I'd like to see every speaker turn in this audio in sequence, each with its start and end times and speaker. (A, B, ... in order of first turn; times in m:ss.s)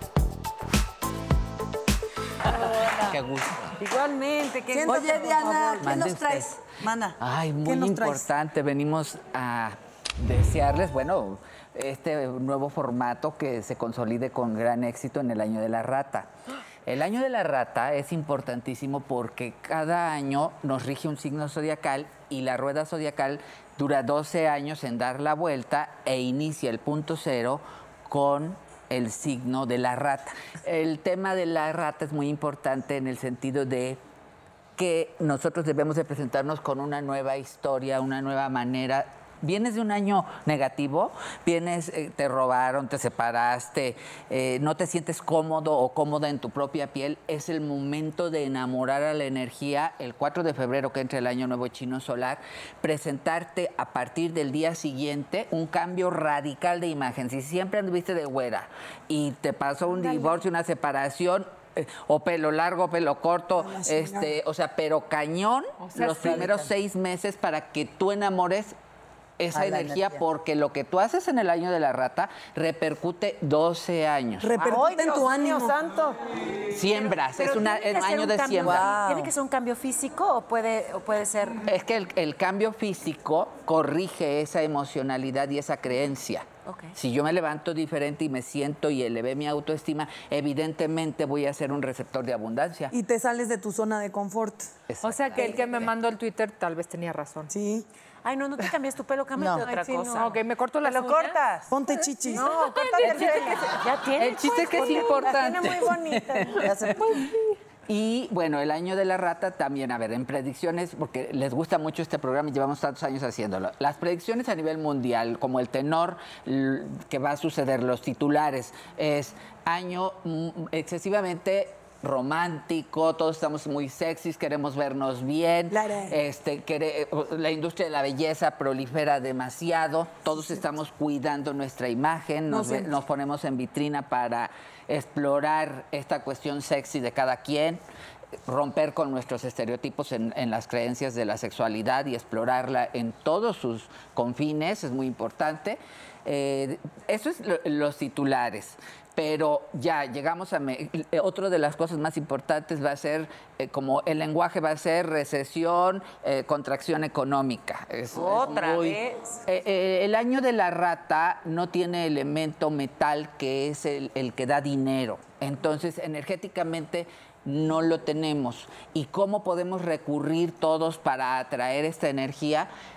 0:02.5-0:03.1 A
0:03.0-0:03.7 B
0:03.8-0:05.8 C
0:04.7-0:05.7 D
0:04.8-0:07.2 A
0:05.8-0:06.5 B
0:07.2-0:16.3 B
0:07.6-0:08.2 D
0:16.8-0:34.0 B
0:34.8-1:08.8 B
1:03.6-1:04.3 D
1:05.8-1:06.6 E
1:09.4-1:14.5 B
1:09.5-1:10.2 A
1:14.4-1:15.8 D
1:14.6-1:16.2 C
1:16.7-1:18.9 B
1:17.2-1:21.6 F
1:18.6-1:19.3 A
1:21.7-1:32.9 B
1:26.6-1:26.9 F
1:32.9-1:34.7 D
1:34.9-1:35.9 B
1:35.0-1:37.5 E
1:37.5-1:37.8 D
1:38.2-1:40.4 F
1:39.4-1:39.6 A
1:39.6-1:41.4 E
1:40.8-1:41.7 C
1:41.7-1:42.5 D
1:42.3-1:45.7 E
1:42.3-1:43.7 C
1:43.0-1:45.5 F
1:44.5-1:46.7 C
1:45.6-1:47.1 B
1:46.6-1:47.2 A
1:47.0-1:47.6 E
1:47.9-2:17.8 B
2:05.7-2:06.1 D
2:12.5-2:12.9 D
2:18.4-2:52.7 B
2:38.1-2:39.2 F